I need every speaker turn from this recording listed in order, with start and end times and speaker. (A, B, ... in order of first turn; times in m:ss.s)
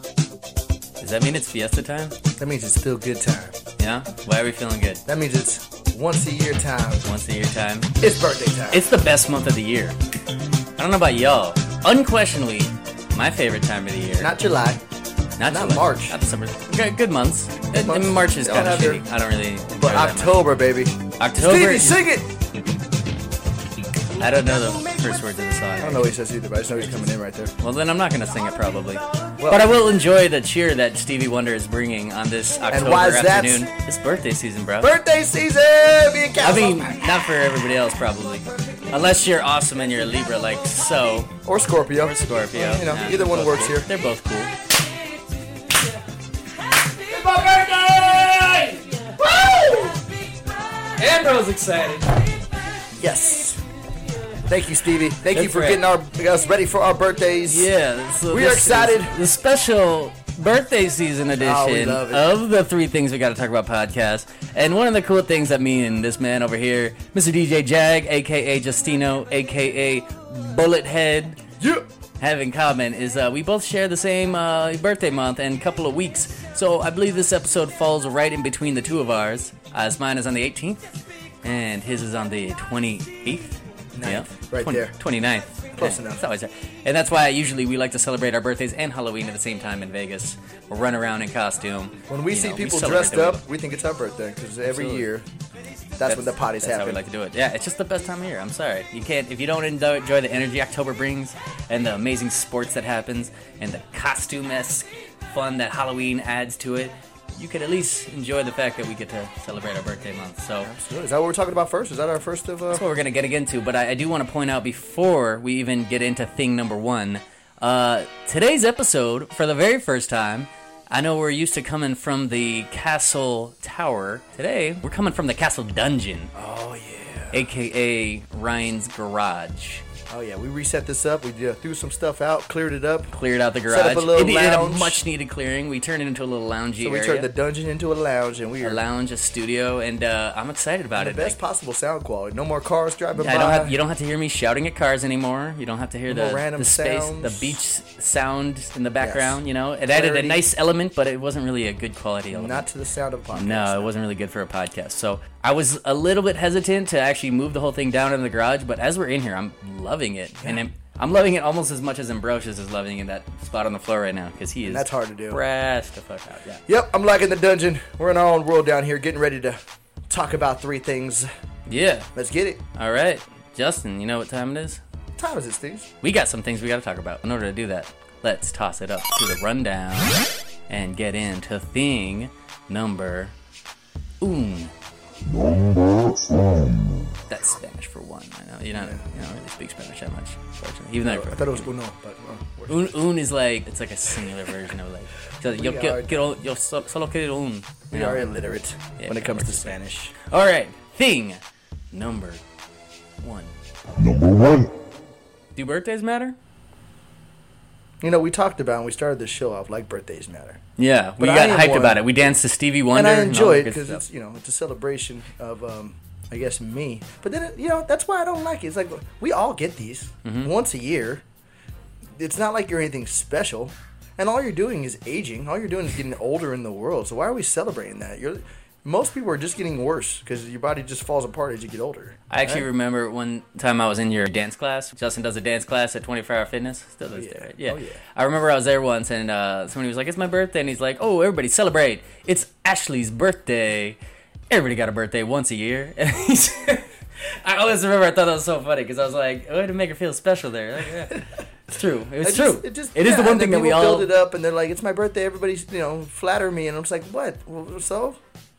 0:01.0-0:02.2 A
0:02.4-0:03.6 B
0:03.8-0:05.0 A
0:05.1-0:07.0 B
0:07.0-0:07.9 A
0:08.0-0:08.8 B
0:08.7-0:10.0 A
0:10.8-0:14.3 A
0:14.2-0:14.8 B
0:15.4-0:20.4 A
0:15.5-0:16.2 B
0:17.7-0:19.0 B
0:19.8-0:22.3 B
0:21.2-0:22.0 A
0:24.1-0:26.1 A
0:25.8-0:27.5 B
0:27.6-0:34.9 A
0:29.4-0:29.8 B
0:32.7-0:33.7 B
0:34.8-0:37.1 B
0:36.4-0:41.4 A
0:41.4-0:43.9 B
0:41.9-0:44.5 A
0:47.0-0:50.0 B
0:48.5-0:49.0 A
0:51.0-0:52.2 A
0:53.0-0:53.6 B
0:54.5-0:57.7 B
0:55.3-0:55.8 A
0:57.5-1:11.4 A
0:58.3-0:59.2 B
1:01.4-1:02.3 B
1:11.6-1:11.8 B
1:12.2-1:33.4 A
1:23.9-1:25.0 B
1:25.7-1:26.2 B
1:32.1-1:35.2 B
1:34.7-1:35.1 A
1:36.0-1:37.0 B
1:36.0-1:50.7 A
1:50.6-1:52.8 B
1:52.7-2:06.3 A
2:06.3-2:07.5 B
2:07.3-2:09.8 A
2:10.1-2:13.1 B
2:13.1-2:17.3 A
2:13.7-2:15.0 B
2:16.8-2:18.8 B
2:18.6-2:21.4 A
2:21.0-2:23.8 B
2:23.2-2:32.7 A
2:26.1-2:27.6 B
2:29.0-2:30.4 B
2:32.3-2:33.9 B
2:33.3-2:46.6 A
2:44.6-2:45.4 B
2:46.7-2:51.3 B
2:51.7-2:52.1 A
2:52.2-2:52.6 B
2:52.8-2:54.8 A
2:55.2-2:55.9 B
2:56.0-3:03.3 A
3:04.2-3:04.7 A
3:05.2-3:07.1 C
3:07.3-3:11.7 A
3:08.8-3:09.0 B
3:11.0-3:12.9 B
3:12.7-3:18.3 A
3:15.5-3:16.3 B
3:17.9-3:20.2 B
3:19.0-3:21.4 A
3:21.9-3:22.4 A
3:23.2-3:23.6 A
3:24.0-3:24.7 C
3:25.6-3:26.4 A
3:28.0-3:30.6 B
3:30.8-3:34.0 A
3:31.2-3:32.0 B
3:32.9-3:41.2 B
3:40.2-3:40.5 A
3:42.2-3:52.7 B
3:52.3-4:04.0 A
3:57.1-3:58.0 B
4:04.5-4:14.1 A
4:12.2-4:18.2 B